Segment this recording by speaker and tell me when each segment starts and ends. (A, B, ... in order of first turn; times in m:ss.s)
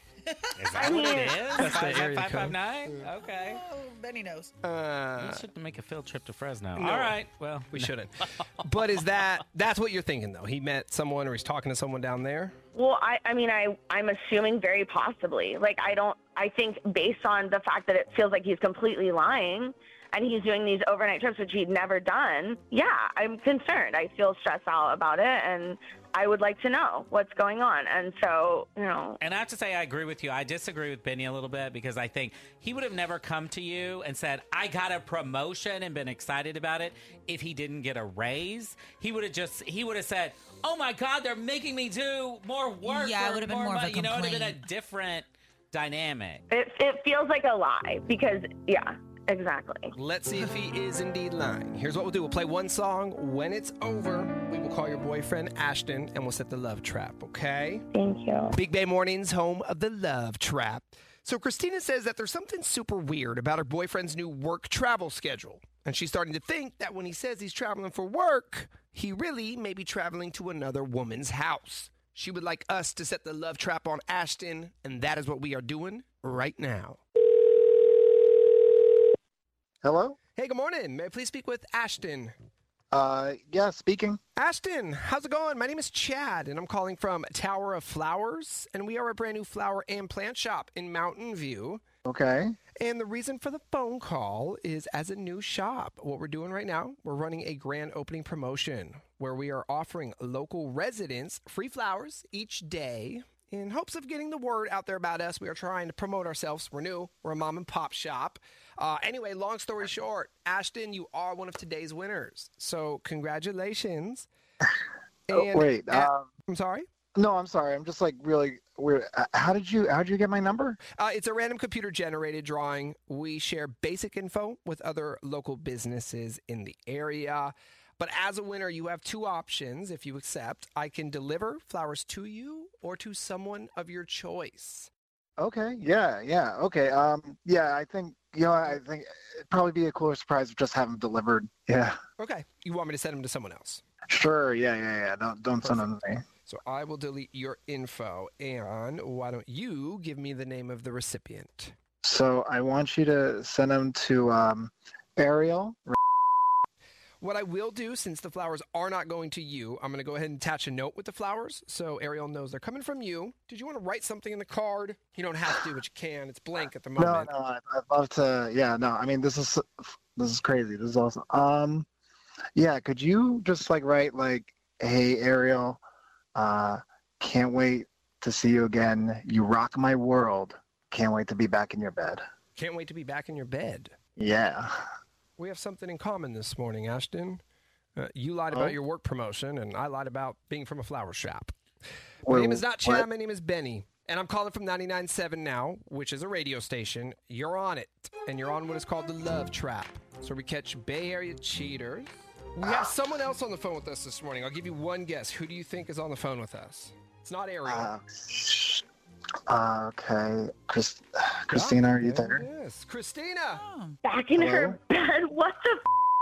0:00.6-0:03.6 A
0:00.7-0:01.4 B
0:00.8-0:03.0 C
0:03.4-0:04.5 D
0:04.6-0:05.4 C
0:05.2-0:07.9 A
0:06.8-0:07.2 C
0:07.7-0:12.5 C
0:12.7-0:29.2 B
0:29.2-0:46.4 A
0:42.8-0:44.6 D
0:46.5-0:49.9 B
0:49.9-0:57.8 C
0:57.9-0:58.6 B
0:58.5-1:17.0 C
1:19.8-1:20.2 E
1:20.4-1:22.3 C
1:22.9-1:24.2 E
1:24.4-1:31.8 C
1:32.0-1:32.6 E
1:32.8-1:54.3 C
1:55.3-1:56.9 C
1:55.3-1:56.3 E
1:57.2-2:00.8 E
2:00.9-2:14.9 C
2:15.4-2:22.0 E
2:22.2-2:23.8 C
2:24.1-2:26.2 E
2:25.6-2:25.9 C
2:26.4-2:31.7 C
2:32.0-2:36.0 E
2:37.2-2:47.3 C
2:47.0-2:51.9 E
2:52.6-2:55.8 E
2:56.3-3:02.2 E
3:02.6-3:03.9 C
3:04.2-3:04.7 E
3:05.4-3:07.4 C
3:08.0-3:11.5 C
3:12.2-3:13.0 E
3:12.2-3:27.9 C
3:22.6-3:22.9 E
3:27.6-3:28.8 E
3:29.5-3:32.4 E
3:31.5-3:33.6 C
3:33.5-3:34.0 D
3:34.0-3:35.8 B
3:34.3-3:34.8 E